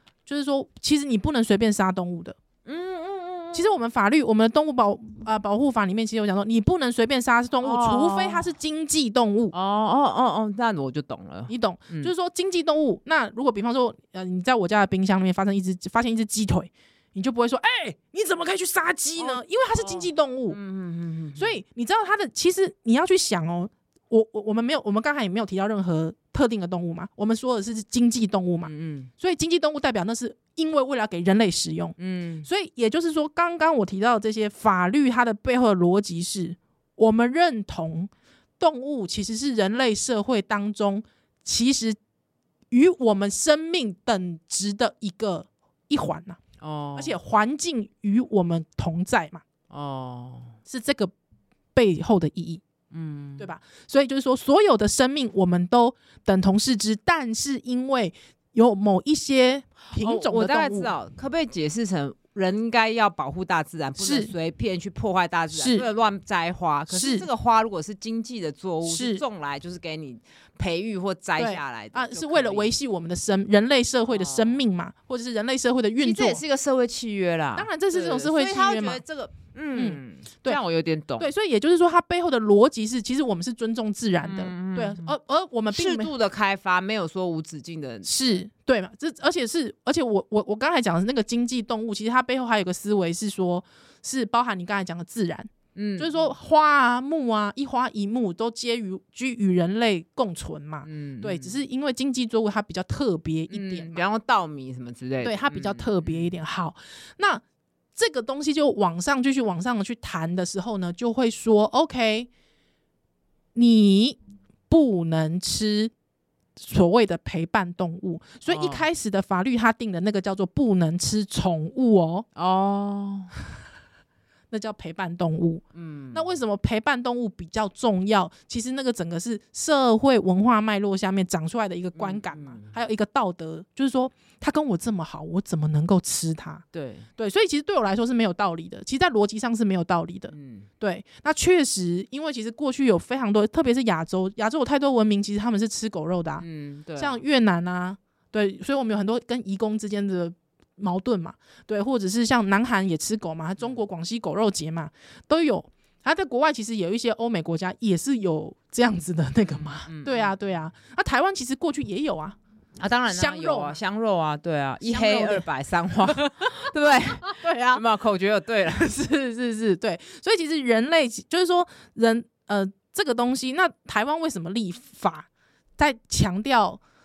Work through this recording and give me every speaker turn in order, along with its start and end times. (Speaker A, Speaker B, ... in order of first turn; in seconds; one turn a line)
Speaker A: 0.2-2.4
Speaker B: 2.6-3.8
Speaker A: 3.5-9.5
Speaker B: 7.6-8.5
Speaker B: 9.5-12.1
Speaker A: 11.5-20.6
Speaker B: 19.1-21.5
Speaker A: 21.3-42.0
Speaker B: 28.6-29.1
Speaker B: 32.0-32.5
Speaker A: 42.7-46.4
Speaker B: 46.6-47.1
Speaker A: 46.9-49.4
Speaker B: 49.7-50.5
Speaker A: 50.6-51.1
Speaker A: 51.8-52.6
Speaker B: 52.9-53.5
Speaker A: 53.4-60.9
Speaker B: 59.9-72.7
Speaker A: 64.0-64.3
Speaker A: 65.5-65.8
Speaker A: 66.9-67.2
Speaker A: 68.8-69.2
Speaker A: 71.4-76.4
Speaker B: 74.1-74.6
Speaker B: 76.0-81.3
Speaker A: 77.5-79.0
Speaker A: 79.7-80.6
Speaker A: 81.2-86.1
Speaker B: 84.2-85.1
Speaker B: 85.7-88.4
Speaker A: 88.0-104.0
Speaker B: 95.7-96.3
Speaker B: 100.8-101.6
Speaker B: 103.5-106.3
Speaker A: 105.2-107.4
Speaker A: 108.0-112.3
Speaker A: 113.5-115.9
Speaker A: 116.6-122.2
Speaker B: 118.5-118.9
Speaker B: 122.3-123.3
Speaker A: 124.5-136.6
Speaker B: 125.7-126.3
Speaker B: 131.9-132.7
Speaker B: 136.7-137.1
Speaker A: 137.2-146.4
Speaker B: 140.3-140.7
Speaker B: 146.4-147.2
Speaker A: 147.0-162.4
Speaker B: 159.5-160.3
Speaker B: 162.8-168.9
Speaker A: 163.1-163.8
Speaker A: 164.8-165.4
Speaker A: 166.0-166.7
Speaker A: 167.2-167.8
Speaker A: 168.7-176.8